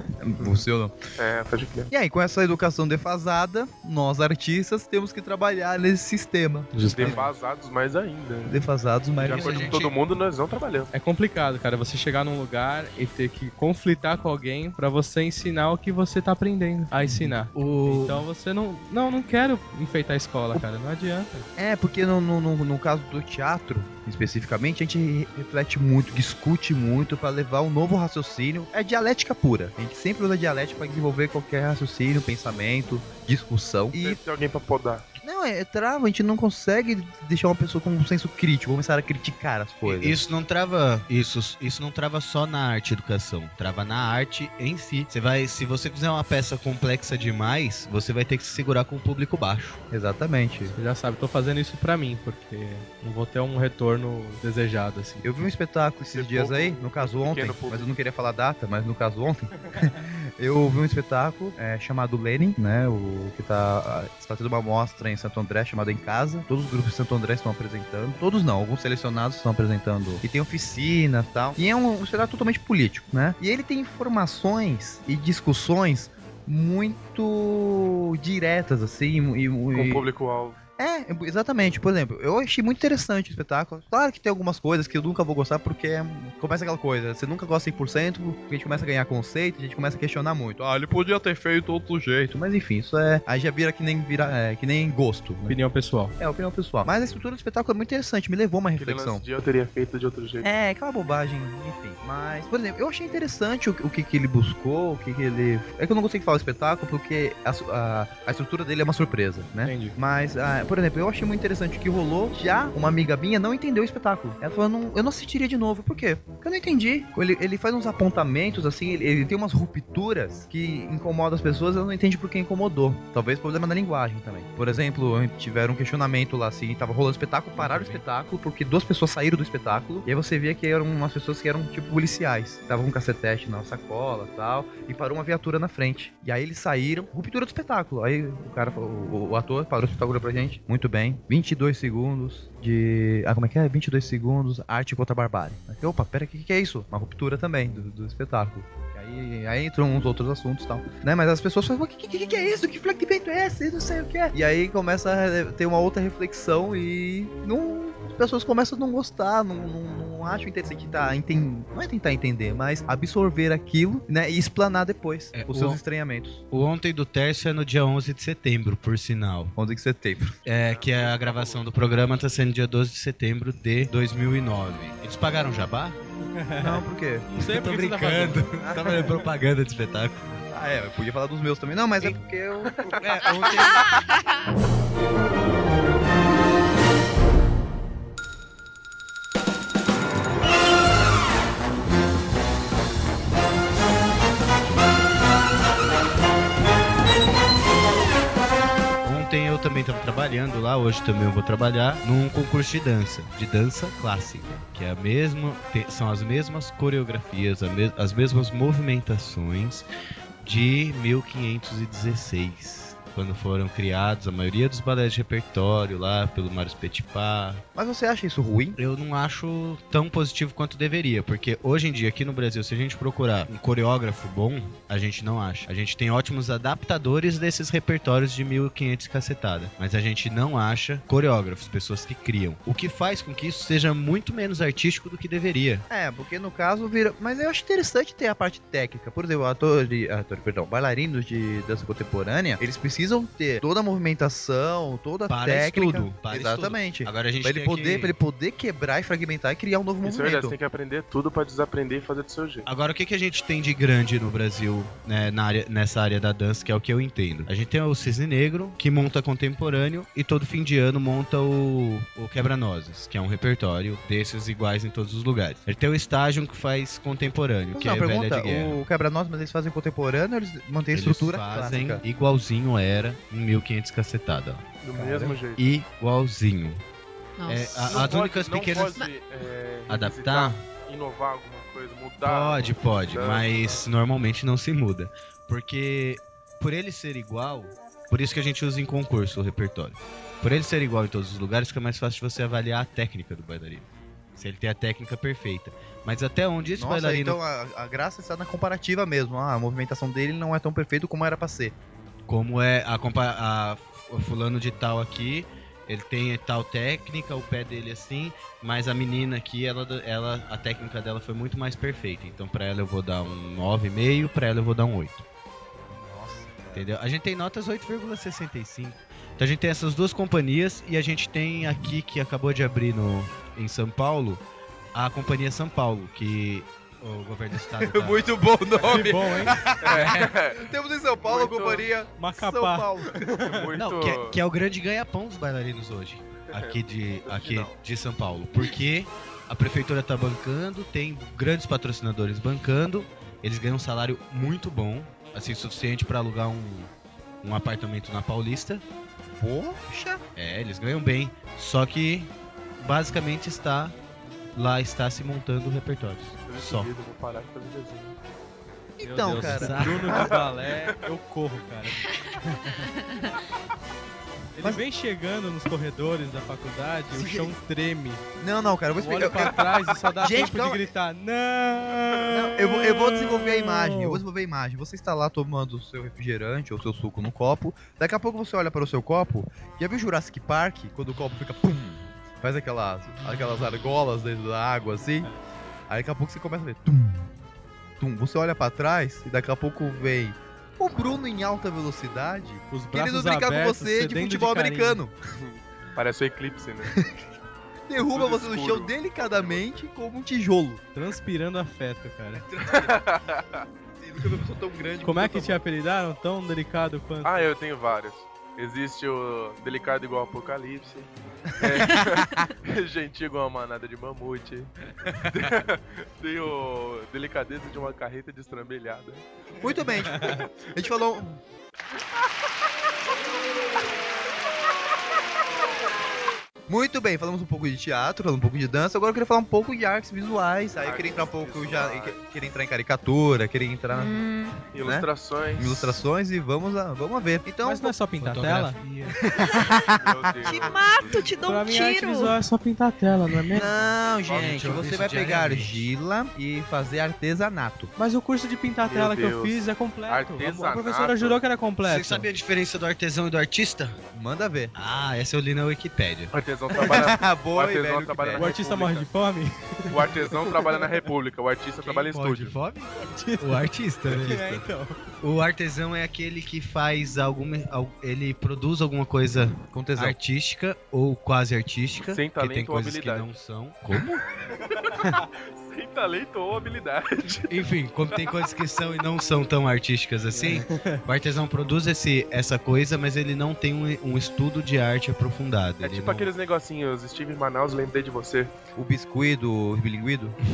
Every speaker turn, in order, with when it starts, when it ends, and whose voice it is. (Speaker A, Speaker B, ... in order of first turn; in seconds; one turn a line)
Speaker A: 0.2-0.9
Speaker B: 1.2-1.9
Speaker A: 1.9-7.2
Speaker C: 6.7-7.3
Speaker B: 6.9-8.6
Speaker A: 8.5-9.7
Speaker D: 9.2-9.9
Speaker B: 9.2-10.9
Speaker C: 10.9-21.4
Speaker D: 17.2-18.2
Speaker A: 21.6-34.2
Speaker B: 33.9-35.0
Speaker A: 35.2-40.2
Speaker D: 39.8-49.8
Speaker A: 49.9-50.7
Speaker C: 50.7-55.2
Speaker A: 55.2-80.0
Speaker B: 56.1-57.9
Speaker B: 79.7-80.6
Speaker A: 80.8-95.6
Speaker C: 95.5-96.1
Speaker A: 96.2-99.2
Speaker B: 98.8-100.5
Speaker A: 100.4-166.4
Speaker C: 109.6-110.0
Speaker D: 127.5-128.0
Speaker D: 165.3-165.8
Speaker D: 166.5-169.5
Speaker A: 169.6-170.4
Speaker D: 170.4-176.0
Speaker B: 170.7-171.7
Speaker C: 176.4-178.5
Speaker A: 176.6-177.3
Speaker D: 177.4-180.2
Speaker A: 178.6-179.1
Speaker A: 180.5-184.1
Speaker B: 182.8-183.4
Speaker E: 183.7-184.3
Speaker D: 199.0-209.8
Speaker D: 210.4-217.6
Speaker A: 217.7-218.8
Speaker D: 218.8-235.8
Speaker A: 235.9-250.5
Speaker D: 245.3-248.1
Speaker B: 250.0-252.7
Speaker D: 252.7-268.8
Speaker A: 267.7-272.0
Speaker D: 270.9-274.6
Speaker B: 274.8-275.6
Speaker A: 274.9-275.4
Speaker D: 275.5-276.8
Speaker E: 277.4-278.1
Speaker D: 277.5-279.0
Speaker B: 277.9-283.8
Speaker D: 279.9-280.6
Speaker D: 282.2-297.4
Speaker A: 296.8-301.7
Speaker D: 302.3-315.2
Speaker A: 315.9-316.9
Speaker D: 316.7-324.4
Speaker D: 324.9-328.4
Speaker A: 327.8-333.2
Speaker C: 328.8-329.6
Speaker B: 329.8-330.7
Speaker B: 331.2-331.9
Speaker C: 332.2-333.6
Speaker B: 333.3-334.4
Speaker D: 333.8-346.9
Speaker B: 336.5-337.8
Speaker D: 347.4-348.8
Speaker A: 349.4-350.2
Speaker D: 350.4-353.9
Speaker D: 354.5-356.9
Speaker B: 356.4-358.1
Speaker A: 359.0-360.4
Speaker C: 359.0-362.1
Speaker D: 359.3-360.3
Speaker B: 360.1-360.4
Speaker C: 364.6-368.2
Speaker A: 367.1-367.5
Speaker A: 368.4-370.9
Speaker C: 369.0-374.2
Speaker B: 370.0-370.4
Speaker A: 372.3-385.3
Speaker A: 385.9-387.3
Speaker A: 388.0-395.1
Speaker C: 392.7-395.0
Speaker B: 395.3-396.9
Speaker A: 397.9-400.8
Speaker B: 398.1-399.9
Speaker C: 400.9-402.4
Speaker A: 402.3-403.2
Speaker B: 402.6-403.6
Speaker A: 404.0-405.6
Speaker C: 405.0-407.5
Speaker B: 407.2-419.2
Speaker A: 411.6-412.4
Speaker A: 419.6-421.4
Speaker B: 420.1-420.5
Speaker A: 426.7-434.2
Speaker B: 430.8-432.2
Speaker E: 433.9-434.6
Speaker B: 434.7-436.0
Speaker A: 434.8-437.9
Speaker C: 437.6-438.8
Speaker D: 438.2-439.2
Speaker A: 439.2-441.2
Speaker B: 439.9-441.2
Speaker E: 440.5-442.4
Speaker C: 441.4-443.7
Speaker A: 443.5-447.9
Speaker B: 444.3-444.8
Speaker D: 444.3-445.9
Speaker C: 448.0-452.3
Speaker B: 448.8-451.4
Speaker D: 451.8-454.0
Speaker A: 454.1-454.7
Speaker D: 454.7-456.3
Speaker B: 456.3-459.1
Speaker A: 456.8-458.5
Speaker C: 458.4-460.7
Speaker B: 459.9-462.6
Speaker D: 461.8-464.7
Speaker C: 463.0-465.0
Speaker D: 465.2-474.2
Speaker A: 469.7-470.2
Speaker B: 472.1-473.3
Speaker B: 474.5-477.5
Speaker D: 477.5-486.3
Speaker C: 480.4-481.0
Speaker B: 485.8-488.5
Speaker A: 488.8-490.4